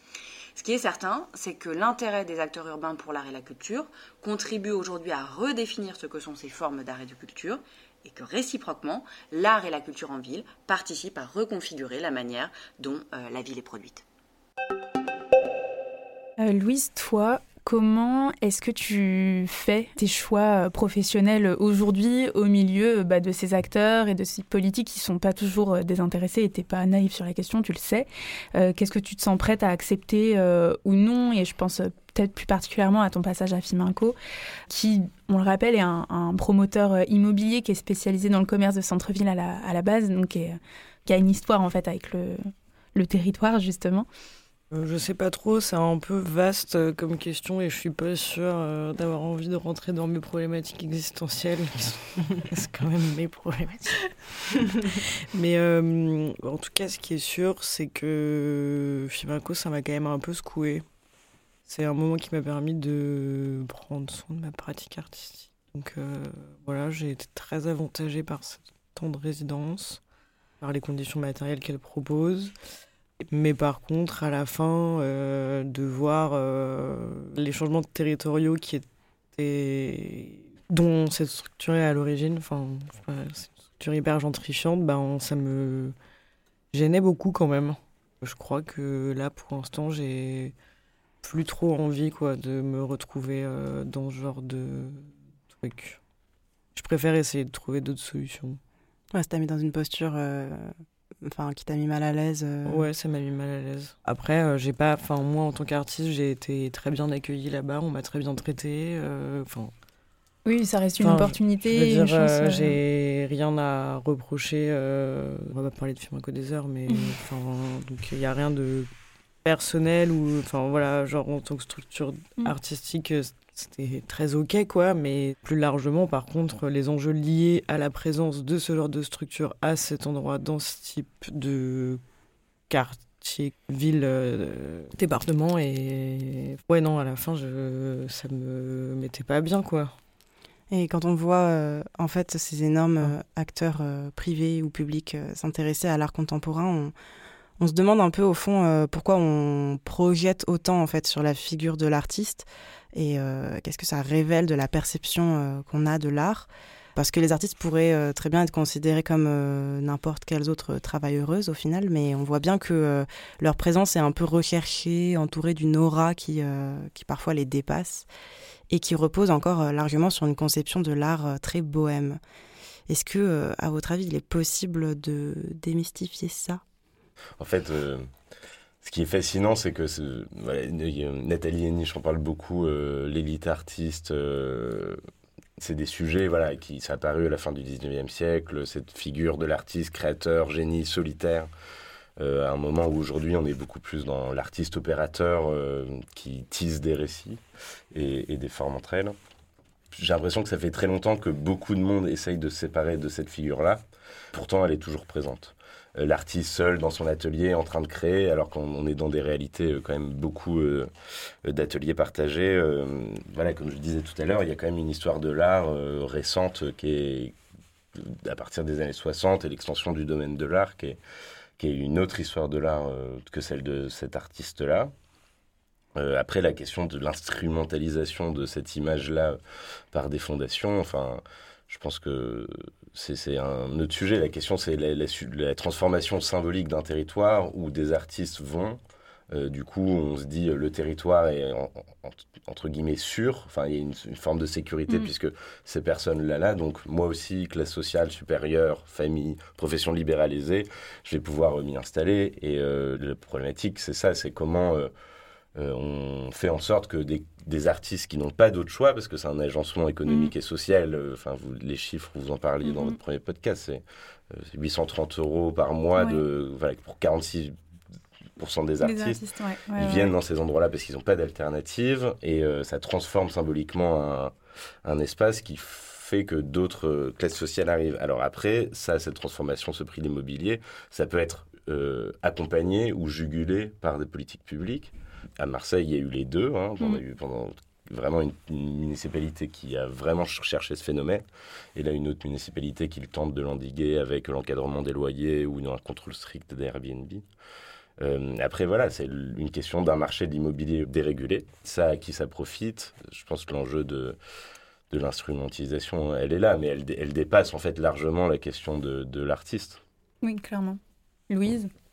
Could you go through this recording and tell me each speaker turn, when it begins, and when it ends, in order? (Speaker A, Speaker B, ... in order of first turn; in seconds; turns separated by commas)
Speaker A: 0.5-14.0, Speaker B: 16.4-34.1, Speaker B: 34.7-42.4, Speaker B: 42.9-44.1, Speaker C: 44.7-54.1, Speaker C: 54.7-60.8, Speaker C: 61.6-70.0, Speaker C: 70.6-72.5, Speaker C: 73.3-85.9, Speaker C: 86.7-90.5, Speaker C: 91.2-96.0, Speaker C: 96.7-98.6, Speaker D: 99.1-102.9, Speaker C: 102.7-109.7, Speaker B: 110.5-112.8, Speaker C: 111.0-118.9, Speaker B: 116.9-117.1, Speaker C: 119.4-132.0, Speaker C: 132.7-139.9, Speaker D: 140.7-146.9, Speaker D: 147.6-168.1, Speaker D: 168.7-172.2, Speaker D: 172.9-176.6, Speaker E: 177.4-178.1, Speaker E: 178.8-185.0, Speaker E: 185.6-191.5, Speaker E: 192.2-197.4, Speaker E: 197.9-199.1, Speaker E: 199.9-203.8, Speaker E: 204.3-210.9, Speaker E: 211.4-217.3, Speaker E: 217.9-221.0, Speaker E: 221.6-224.9, Speaker E: 225.9-229.4, Speaker E: 229.9-238.8, Speaker E: 239.3-254.9, Speaker E: 255.6-267.5, Speaker B: 260.1-260.3, Speaker B: 262.6-263.0, Speaker B: 266.0-266.2, Speaker E: 268.4-269.2, Speaker B: 268.8-270.1, Speaker E: 269.8-274.3, Speaker E: 274.8-291.2, Speaker E: 291.8-297.2, Speaker E: 298.0-304.2, Speaker E: 304.9-309.8, Speaker B: 310.2-311.7